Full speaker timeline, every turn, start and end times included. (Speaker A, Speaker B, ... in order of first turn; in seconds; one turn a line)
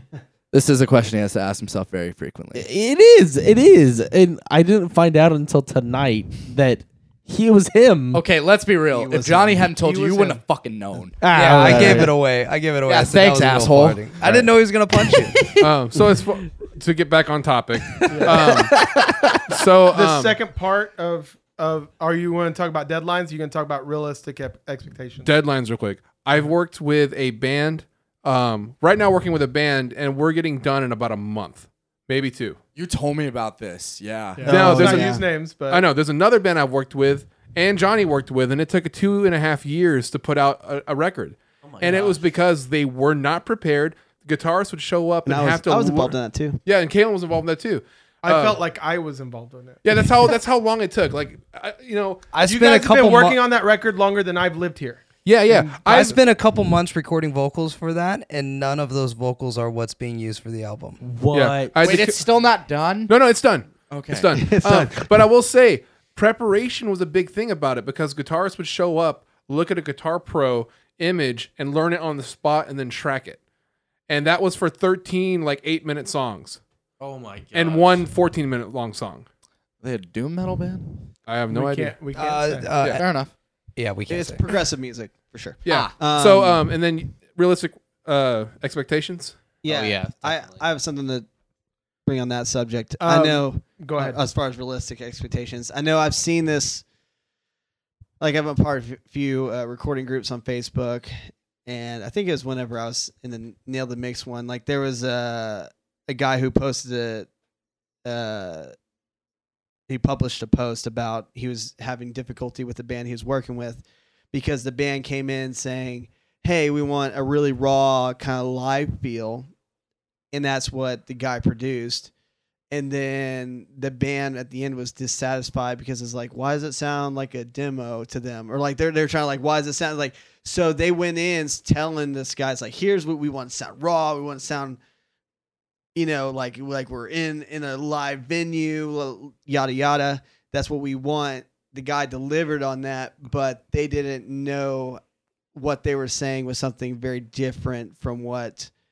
Speaker A: 0.5-2.6
Speaker B: 2.5-8.2
Speaker A: 8.1-12.1
Speaker C: 8.9-9.7
Speaker D: 9.8-10.4
Speaker B: 11.2-12.1
Speaker E: 11.3-15.5
Speaker A: 12.9-14.5
Speaker B: 13.2-13.6
Speaker F: 15.6-18.7
Speaker B: 17.9-19.5
Speaker D: 18.0-18.4
Speaker F: 19.5-20.4
Speaker D: 19.9-25.3
Speaker F: 25.2-32.6
Speaker A: 32.7-34.7
Speaker D: 34.4-35.9
Speaker C: 34.5-35.2
Speaker F: 34.5-48.6
Speaker B: 41.6-42.2
Speaker C: 45.2-46.6
Speaker D: 48.2-49.8
Speaker F: 49.8-52.3
Speaker E: 52.3-53.4
Speaker D: 52.4-56.2
Speaker F: 55.2-56.2
Speaker E: 55.9-61.0
Speaker B: 61.0-61.9
Speaker F: 61.3-62.2
Speaker A: 61.8-63.1
Speaker F: 63.1-73.4
Speaker A: 63.9-64.4
Speaker C: 64.3-65.1
Speaker F: 74.1-76.6
Speaker B: 77.0-78.0
Speaker F: 77.5-79.2
Speaker A: 79.8-81.1
Speaker F: 81.2-82.0
Speaker D: 81.5-82.8
Speaker E: 82.1-83.0
Speaker A: 82.8-83.3
Speaker E: 83.8-84.4
Speaker C: 84.1-86.7
Speaker F: 85.6-89.5
Speaker C: 89.6-91.3
Speaker B: 89.7-90.7
Speaker C: 92.0-96.8
Speaker D: 93.0-94.2
Speaker C: 98.2-107.3
Speaker C: 108.0-108.7
Speaker C: 109.9-119.5
Speaker C: 120.3-122.1
Speaker C: 122.7-134.8
Speaker C: 135.9-145.0
Speaker C: 145.5-148.7